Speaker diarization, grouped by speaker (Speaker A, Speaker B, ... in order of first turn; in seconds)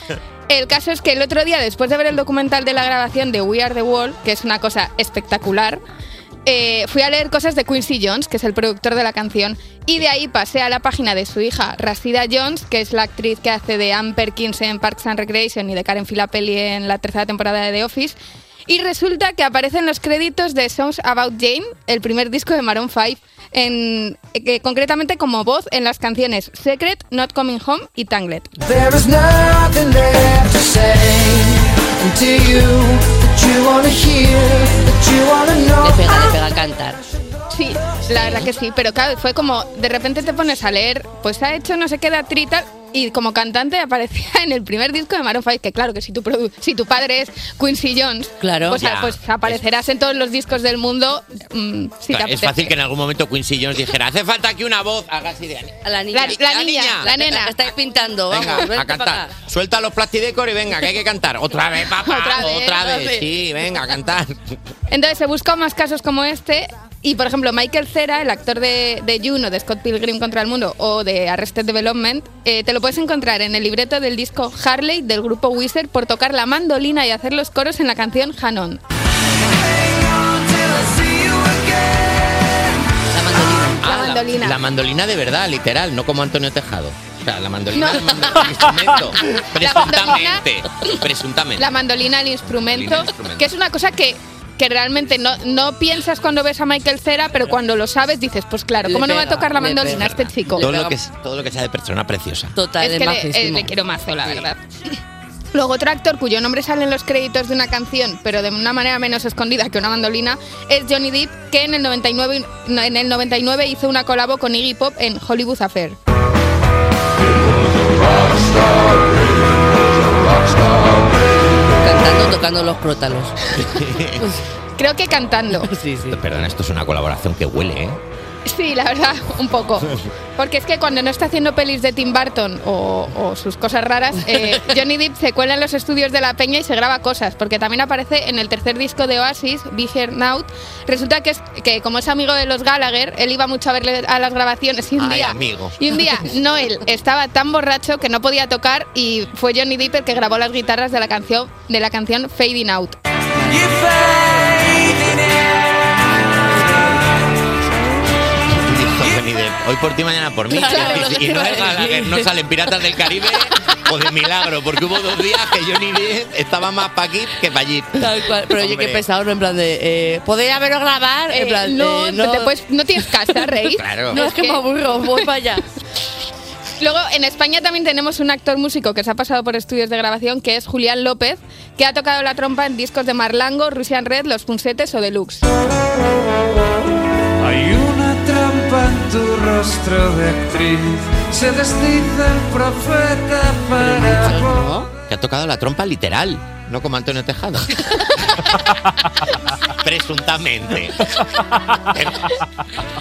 Speaker A: 0.5-5.8, 6.5-28.6, 37.5-52.7, 56.1-57.5, 62.0-62.8, 64.9-78.8, 83.8-84.6, 87.7-88.1, 89.6-90.4, 91.6-100.7, 102.8-104.9, 105.5-116.0, 124.8-125.7, 128.4-153.0, 171.3-174.6, 176.8-185.4
Speaker B: 35.7-37.0, 48.4-48.8, 55.8-59.3, 62.4-63.3, 83.1-84.0, 98.8-101.0, 102.5-103.7, 121.6-123.4, 125.6-126.2, 134.3-134.6, 153.3-155.1, 160.5-162.3, 168.0-172.5, 174.1-175.7, 193.8-194.9
Speaker C: 38.1-38.5, 48.7-49.6, 52.1-57.1, 58.3-64.4, 83.8-91.7, 92.5-93.5, 99.8-102.5, 123.5-124.2, 126.1-128.0, 145.0-145.8, 158.5-169.0, 173.7-174.2, 195.1-197.7, 199.8-201.1, 201.9-202.3
Speaker D: 187.4-194.8